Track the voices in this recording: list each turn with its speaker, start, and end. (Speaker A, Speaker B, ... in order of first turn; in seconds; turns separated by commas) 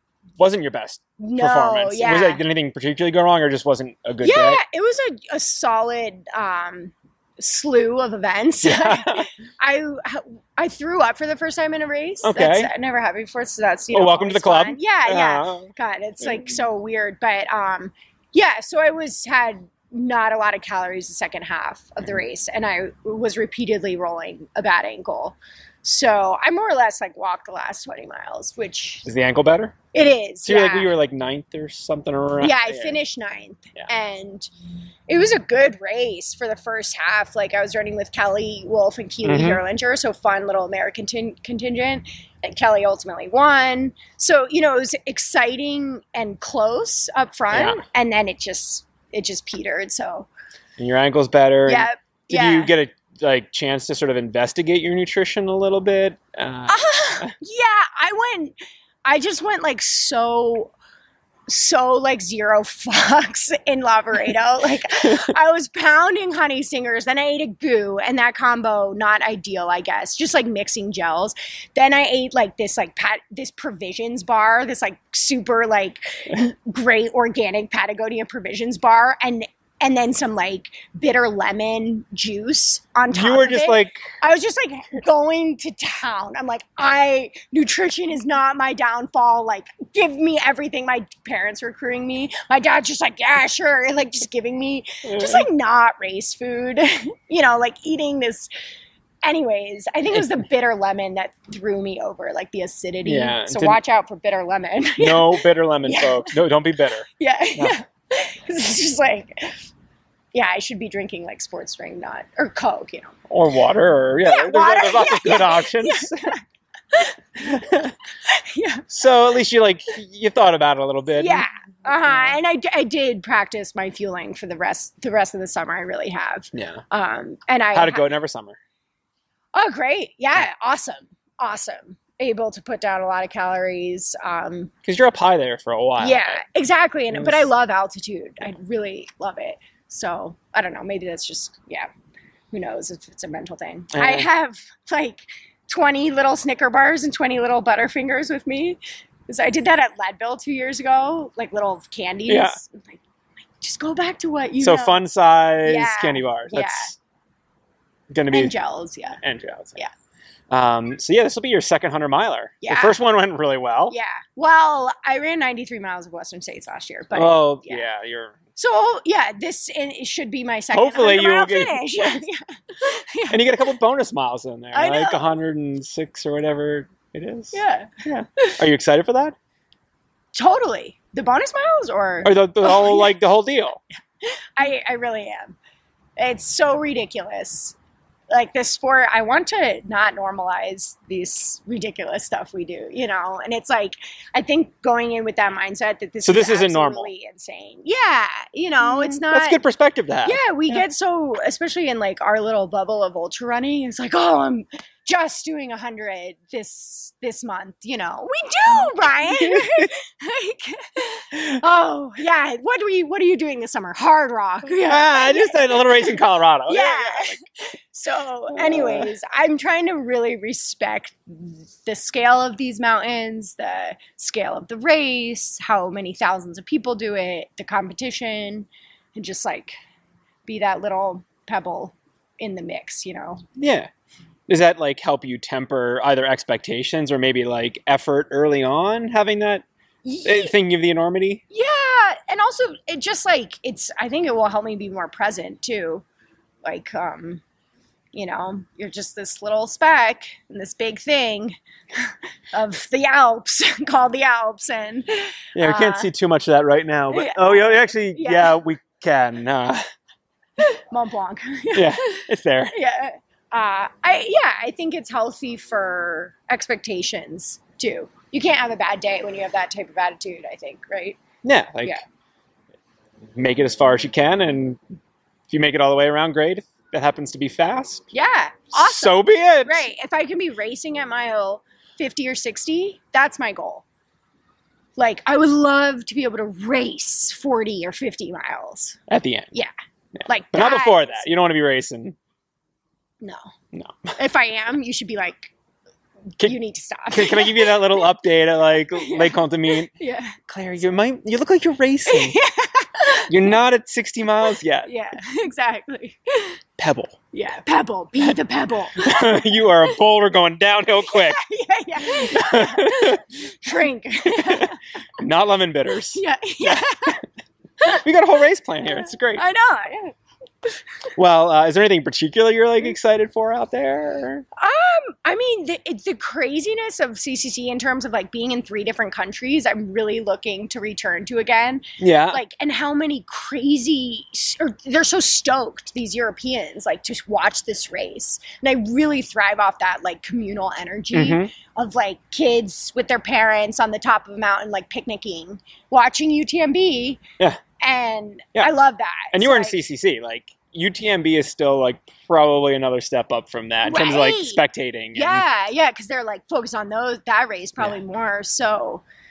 Speaker A: 0.4-4.6, Speaker B: 1.2-2.4, Speaker B: 4.2-29.1, Speaker A: 8.6-9.3, Speaker A: 12.2-12.7, Speaker A: 13.9-15.7, Speaker A: 29.1-29.7, Speaker B: 29.9-30.9, Speaker A: 30.4-33.0, Speaker B: 32.4-34.5, Speaker B: 35.1-50.3, Speaker A: 39.2-39.6, Speaker A: 47.5-47.8, Speaker A: 50.8-57.3, Speaker B: 51.6-52.7, Speaker B: 56.7-60.7, Speaker B: 61.5-98.5, Speaker A: 83.1-84.0, Speaker A: 95.0-95.5, Speaker B: 99.2-106.4, Speaker A: 103.0-103.8, Speaker A: 105.0-107.8, Speaker B: 107.2-109.6, Speaker B: 110.3-113.2, Speaker A: 113.3-116.3, Speaker B: 114.2-116.4, Speaker B: 116.9-118.8, Speaker A: 117.5-117.9, Speaker A: 118.9-121.5, Speaker B: 121.2-128.1, Speaker A: 126.5-126.8, Speaker A: 127.7-128.6, Speaker B: 129.5-134.7, Speaker A: 134.8-136.4, Speaker B: 136.0-141.9, Speaker A: 137.1-137.5, Speaker B: 142.5-153.0, Speaker A: 143.9-144.3, Speaker A: 152.3-152.6, Speaker B: 153.6-155.0, Speaker A: 154.6-156.9, Speaker B: 155.6-156.9, Speaker A: 158.1-158.5, Speaker B: 158.3-159.2, Speaker A: 159.2-159.8, Speaker A: 160.5-163.9, Speaker B: 162.6-163.0, Speaker B: 163.9-167.9, Speaker A: 167.1-168.4, Speaker B: 168.6-173.7, Speaker A: 170.7-172.2, Speaker A: 173.3-179.3, Speaker B: 174.7-175.2, Speaker B: 177.5-177.9, Speaker B: 180.3-183.2, Speaker A: 182.2-183.8, Speaker B: 184.2-185.6, Speaker B: 186.2-187.7, Speaker B: 188.3-199.6, Speaker A: 196.2-197.1, Speaker A: 198.8-200.8, Speaker B: 200.2-229.7, Speaker A: 209.0-209.9, Speaker A: 214.8-217.4, Speaker A: 218.5-219.1, Speaker B: 230.4-233.4, Speaker A: 233.6-233.9, Speaker A: 234.5-239.6, Speaker B: 240.0-240.5, Speaker A: 240.2-241.4, Speaker B: 241.5-246.0, Speaker B: 246.6-247.4, Speaker B: 248.1-256.1, Speaker A: 255.5-259.8, Speaker B: 257.1-258.6, Speaker B: 260.6-262.2, Speaker A: 261.7-262.7, Speaker B: 262.7-271.2, Speaker A: 271.4-272.0, Speaker A: 273.4-274.8, Speaker A: 275.5-278.0, Speaker B: 278.1-283.8, Speaker A: 278.7-279.9, Speaker B: 284.9-289.0, Speaker A: 289.1-289.5, Speaker B: 290.2-291.3, Speaker A: 290.5-292.1, Speaker A: 293.7-294.1, Speaker B: 294.2-295.5, Speaker B: 296.4-298.1, Speaker A: 297.1-299.9, Speaker B: 298.9-300.4, Speaker A: 300.5-302.4, Speaker B: 302.1-303.4, Speaker A: 303.3-304.9, Speaker B: 304.4-306.6, Speaker A: 306.8-307.1, Speaker B: 307.3-309.9, Speaker A: 308.9-311.4, Speaker B: 311.1-314.8, Speaker A: 312.1-313.2, Speaker A: 314.3-317.1, Speaker B: 316.1-317.2, Speaker A: 318.0-319.4, Speaker B: 318.8-320.1, Speaker A: 321.1-324.4, Speaker B: 324.6-347.2, Speaker A: 332.0-332.4, Speaker A: 341.1-341.5, Speaker B: 347.8-349.8, Speaker A: 349.3-355.4, Speaker B: 353.8-354.6, Speaker B: 355.1-359.0